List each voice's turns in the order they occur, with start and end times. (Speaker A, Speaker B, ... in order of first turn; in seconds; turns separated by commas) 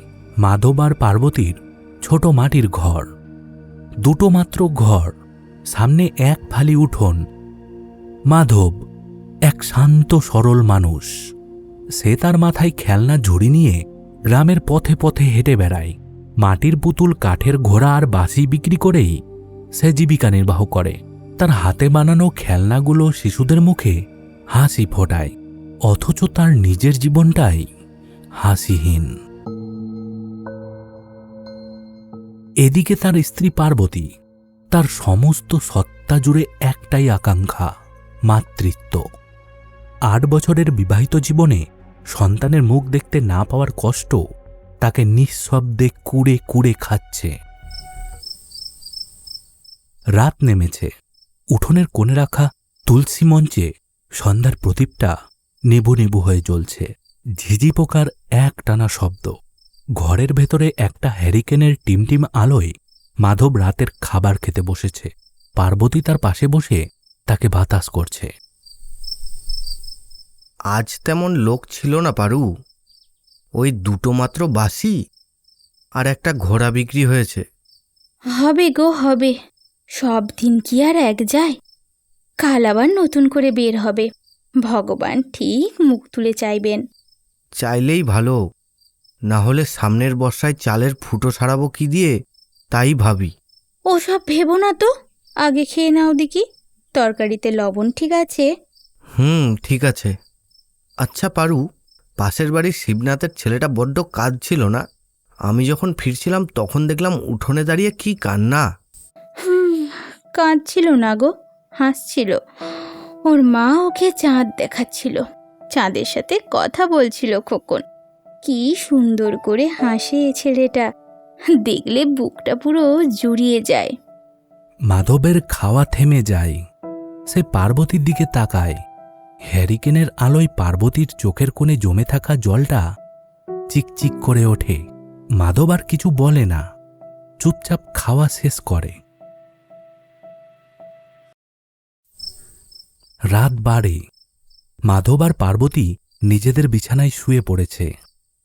Speaker A: 0.4-3.1, Speaker A: 4.0-5.1, Speaker A: 5.7-7.2, Speaker A: 8.3-8.8, Speaker A: 9.5-11.1, Speaker A: 12.0-13.8, Speaker A: 14.3-19.1, Speaker A: 19.8-23.9, Speaker A: 24.5-25.3, Speaker A: 25.9-27.7, Speaker A: 28.4-29.1, Speaker A: 32.6-34.1, Speaker A: 34.7-37.7, Speaker A: 38.3-39.0, Speaker A: 40.1-41.6, Speaker A: 42.1-44.2, Speaker A: 44.8-47.3, Speaker A: 50.2-50.9, Speaker A: 51.5-53.7, Speaker A: 54.2-55.1, Speaker A: 55.7-56.9, Speaker A: 57.4-59.3, Speaker A: 60.0-62.7, Speaker A: 63.2-65.1, Speaker A: 65.6-68.3, Speaker B: 70.7-72.5, Speaker B: 73.6-74.9, Speaker B: 76.0-77.4, Speaker C: 78.3-79.3, Speaker C: 80.0-81.5, Speaker C: 82.4-84.1, Speaker C: 84.7-86.8, Speaker B: 87.6-88.4, Speaker B: 89.3-92.1, Speaker B: 92.7-93.3, Speaker C: 93.9-94.9, Speaker C: 95.5-96.4, Speaker C: 97.0-98.5, Speaker B: 99.2-100.1, Speaker B: 101.0-101.6, Speaker B: 102.2-104.8, Speaker B: 105.5-108.7, Speaker C: 109.4-111.3, Speaker C: 111.8-112.4, Speaker C: 113.3-115.2, Speaker C: 115.8-117.8, Speaker C: 118.4-120.8, Speaker C: 121.6-123.9, Speaker A: 124.9-126.6, Speaker A: 127.3-128.8, Speaker A: 129.5-132.8, Speaker A: 133.7-134.8, Speaker A: 135.4-136.6, Speaker A: 137.4-138.9, Speaker A: 143.3-144.0, Speaker A: 144.9-147.9